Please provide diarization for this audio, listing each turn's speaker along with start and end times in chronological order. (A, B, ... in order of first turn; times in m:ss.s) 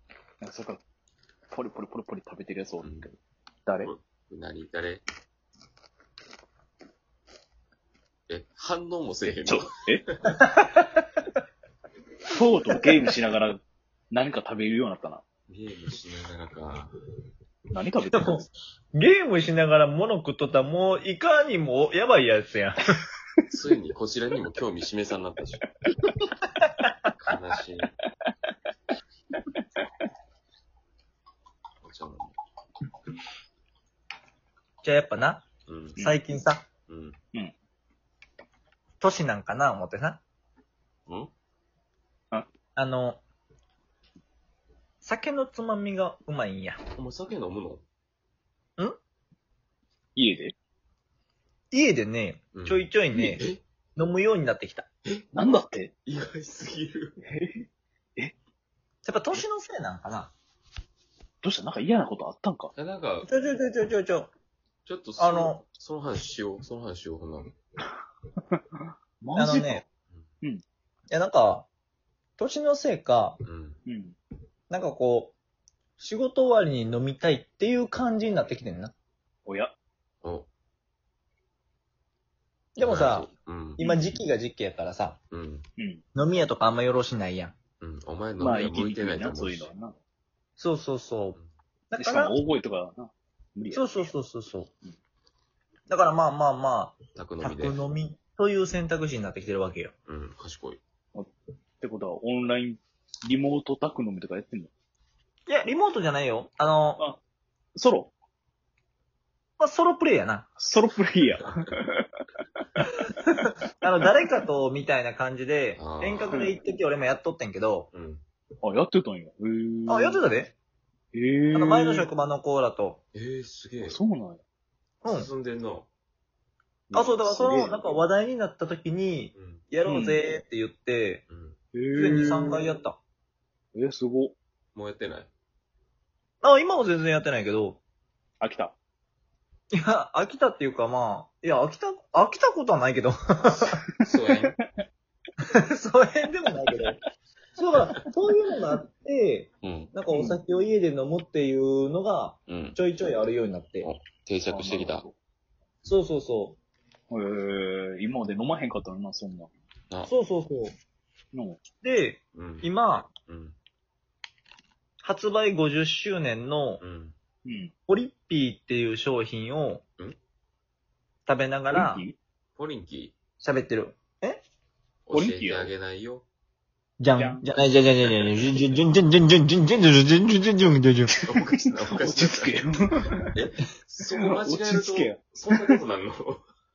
0:00.4-0:00.8 A
0:01.5-0:03.9 A
0:02.8-0:03.1 B
0:03.8-0:05.0 B
0:08.3-0:10.4 B
0:09.4-0:10.0 A
0:10.3-0:11.0 C
0:12.3-0:15.2 A
0:15.5-0:16.9 B
0:17.7-0:18.5 A
0:18.1-0:23.0 C
0:23.5-0:25.7 B
0:27.2-0:27.9 B
0:31.8-0:32.3 B
0:34.8-0:35.4 C
0:35.7-0:36.0 B
0:36.0-0:36.6 C
0:36.9-0:37.2 B
0:39.0-0:40.2 C
0:41.1-0:41.3 B
0:42.8-0:43.2 C
0:45.0-0:46.8 C
0:46.9-0:47.8 B
0:50.2-0:50.5 A
0:51.7-0:53.4 C
0:52.5-0:53.6 B
0:54.0-0:54.9 C
0:55.0-0:57.2 B
0:55.3-0:55.9 A
0:57.3-0:57.6 A
0:59.0-1:00.3 C
1:01.4-1:02.7 A
1:02.7-1:03.3 B
1:03.3-1:04.3 C
1:04.8-1:07.6 B
1:05.2-1:05.6 C
1:09.2-1:09.8 A
1:09.3-1:09.8 C
1:11.1-1:11.7 C
1:12.4-1:13.4 C
1:13.4-1:13.8 B
1:13.8-1:14.2 A
1:14.7-1:15.3 C
1:16.0-1:18.9 C
1:19.5-1:19.7 A
1:20.2-1:20.5 B
1:22.7-1:25.2 C
1:22.8-1:23.8 B
1:23.8-1:24.2 A
1:25.3-1:25.7 B
1:25.8-1:26.0 A
1:26.1-1:27.5 C
1:27.8-1:29.7 B
1:28.4-1:29.9 A
1:30.6-1:31.4 C
1:31.9-1:32.4 C
1:32.0-1:34.1 A
1:33.7-1:34.7 C
1:35.9-1:39.9 C
1:37.1-1:37.8 B
1:40.0-1:40.8 B
1:41.1-1:44.7 A
1:45.5-1:47.0 C
1:47.8-1:48.1 A
1:49.6-1:50.5 C
1:50.6-1:52.1 A
1:53.4-1:57.9 C
1:55.8-1:56.4 B
1:56.3-1:56.5 A
1:57.9-1:58.2 B
1:58.6-2:00.2 A
1:59.9-2:00.5 C
2:01.1-2:02.1 A
2:01.5-2:03.0 C
2:03.1-2:04.0 B
2:03.8-2:04.4 A
2:05.0-2:05.3 C
2:05.0-2:05.9 B
2:06.9-2:07.8 A
2:06.9-2:11.2 C
2:09.3-2:09.6 B
2:09.8-2:10.2 A
2:11.3-2:11.6 B
2:11.7-2:12.6 A
2:11.9-2:13.0 C
2:13.7-2:14.3 A
2:14.7-2:15.3 B
2:16.4-2:17.8 C
2:18.4-2:18.7 A
2:19.7-2:23.8 C
2:24.0-2:24.5 B
2:25.5-2:27.0 C
2:27.6-2:33.9 C
2:29.6-2:29.9 B
2:30.1-2:30.4 A
2:32.5-2:32.8 B
2:33.8-2:35.0 B
2:34.4-2:35.1 A
2:35.8-2:36.6 C
2:37.1-2:39.5 A
2:40.1-2:40.7 C
2:41.3-2:41.6 A
2:41.8-2:43.1 C
2:42.3-2:43.6 B
2:45.0-2:46.8 C
2:46.8-2:47.1 B
2:47.4-2:47.7 A
2:47.9-2:49.8 C
2:51.2-2:52.0 C
2:51.7-2:52.2 A
2:52.6-2:53.2 B
2:53.4-2:54.4 C
2:55.0-2:56.2 B
2:55.1-2:55.7 A
2:57.0-3:01.2 C
2:57.1-2:58.4 A
3:01.2-3:02.7 B
3:01.8-3:03.3 A
3:03.3-3:06.4 B
3:04.2-3:05.8 A